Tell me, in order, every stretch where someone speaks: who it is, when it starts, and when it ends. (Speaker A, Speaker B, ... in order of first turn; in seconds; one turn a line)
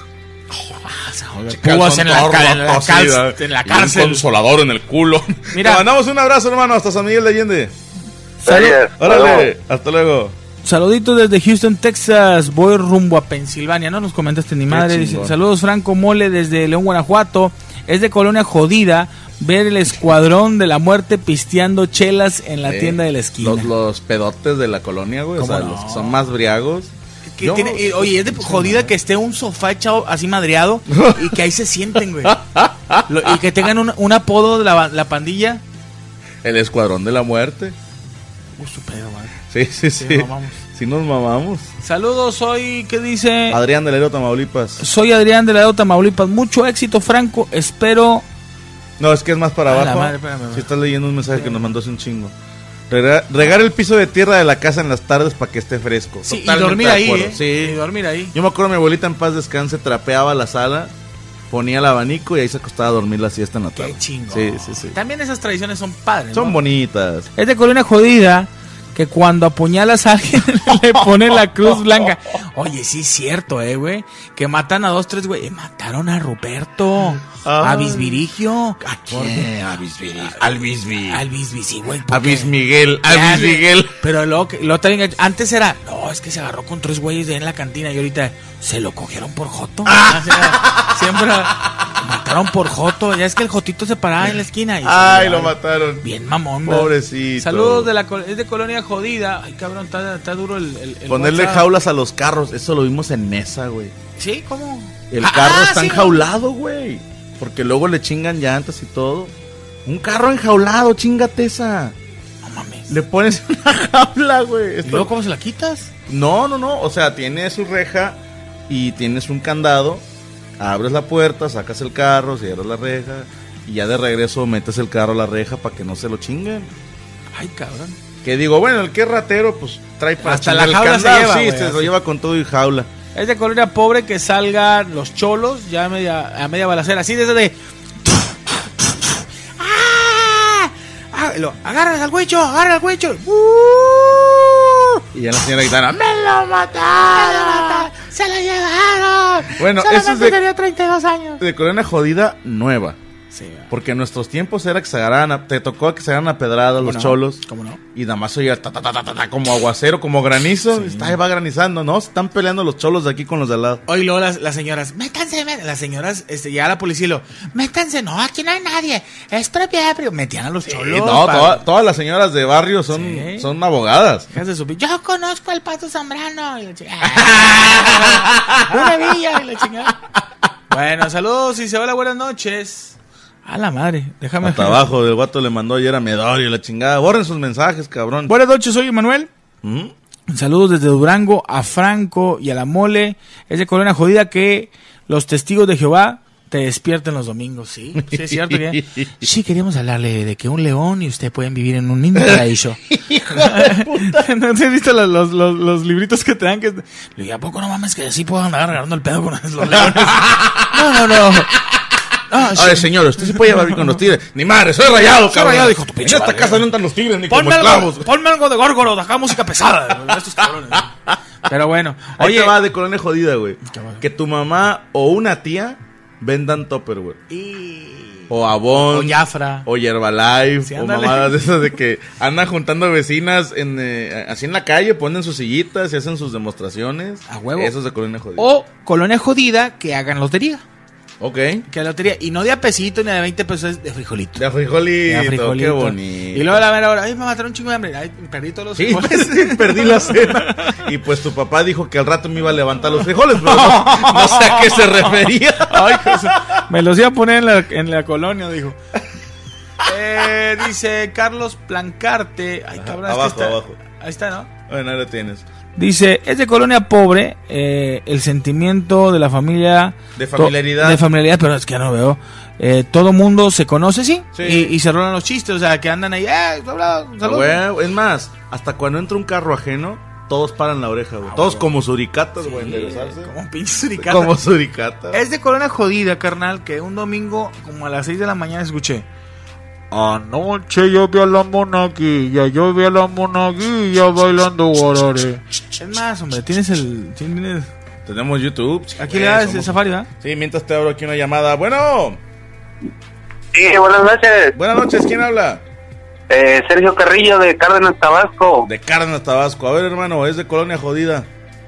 Speaker A: 0.6-4.2
Speaker B: 1.5-7.7
Speaker A: 5.5-5.9
Speaker C: 8.4-9.5
Speaker B: 8.4-10.4
Speaker A: 10.6-23.7
Speaker B: 14.7-15.4
Speaker B: 22.6-28.9
Speaker A: 25.4-26.2
Speaker A: 27.3-32.4
Speaker B: 30.9-31.4
Speaker B: 32.2-33.4
Speaker A: 33.1-35.6
Speaker B: 36.4-37.8
Speaker A: 38.6-39.4
Speaker B: 39.5-41.7
Speaker A: 40.0-40.6
Speaker A: 41.8-43.6
Speaker B: 43.5-44.8
Speaker A: 44.8-48.2
Speaker B: 49.0-52.3
Speaker A: 49.7-50.7
Speaker A: 51.3-51.6
Speaker B: 52.9-57.8
Speaker A: 56.3-58.3
Speaker B: 58.3-60.9
Speaker B: 61.5-65.0
Speaker A: 63.8-66.6
Speaker B: 66.3-67.3
Speaker A: 67.4-79.5
Speaker B: 71.0-71.9
Speaker B: 77.3-78.2
Speaker B: 78.8-81.2
Speaker A: 81.1-82.5
Speaker B: 82.1-84.0
Speaker A: 83.1-101.7
Speaker B: 89.9-91.0
Speaker B: 94.8-96.1
Speaker B: 96.7-97.9
Speaker B: 101.1-103.9
Speaker A: 104.2-106.3
Speaker B: 105.1-109.3
Speaker B: 109.9-112.0
Speaker A: 112.4-112.9
Speaker B: 112.9-115.1
Speaker A: 114.8-115.9
Speaker B: 116.1-120.0
Speaker B: 120.6-126.7
Speaker A: 127.3-128.0
Speaker B: 128.2-132.9
Speaker A: 130.2-131.9
Speaker A: 133.2-145.0
Speaker B: 145.1-147.9
Speaker A: 147.0-151.4
Speaker B: 149.6-150.4
Speaker B: 151.4-153.0
Speaker A: 153.3-153.7
Speaker B: 153.7-157.4
Speaker A: 156.8-157.8
Speaker B: 157.9-163.8
Speaker A: 160.7-161.2
Speaker A: 163.9-171.6
Speaker B: 170.8-174.3
Speaker A: 172.9-173.5
Speaker A: 174.3-180.0
Speaker B: 177.2-179.1
Speaker A: 180.7-184.9
Speaker B: 184.4-188.3
Speaker A: 188.3-189.3
Speaker B: 189.6-189.9
Speaker A: 190.3-202.8
Speaker B: 198.0-199.3
Speaker B: 202.2-204.3
Speaker A: 203.3-211.5
Speaker B: 209.7-211.8
Speaker A: 212.3-213.9
Speaker B: 212.4-218.1
Speaker A: 215.1-216.7
Speaker A: 217.3-220.9
Speaker B: 220.7-221.2
Speaker A: 221.4-222.6
Speaker B: 222.2-227.2
Speaker A: 223.7-224.0
Speaker A: 227.3-229.7
Speaker B: 228.3-238.5
Speaker A: 230.7-231.5
Speaker A: 237.3-237.7
Speaker A: 238.4-240.6
Speaker B: 241.2-241.7
Speaker A: 241.7-244.5
Speaker B: 244.4-246.6
Speaker A: 245.1-250.8
Speaker B: 248.8-256.6
Speaker A: 253.4-255.1
Speaker A: 255.7-258.8
Speaker A: 259.8-264.5
Speaker B: 262.8-263.8
Speaker B: 264.7-265.4
Speaker A: 265.8-277.6
Speaker B: 270.2-271.0
Speaker B: 274.4-274.7
Speaker B: 277.2-283.3
Speaker A: 281.3-281.7
Speaker A: 282.4-284.4
Speaker B: 284.0-285.2
Speaker A: 285.1-289.1
Speaker D: 289.9-295.4
Speaker A: 295.8-297.7
Speaker B: 298.1-302.2
Speaker A: 299.0-300.1
Speaker C: 303.5-304.5
Speaker B: 304.6-305.6
Speaker C: 306.3-308.6
Speaker B: 308.6-311.3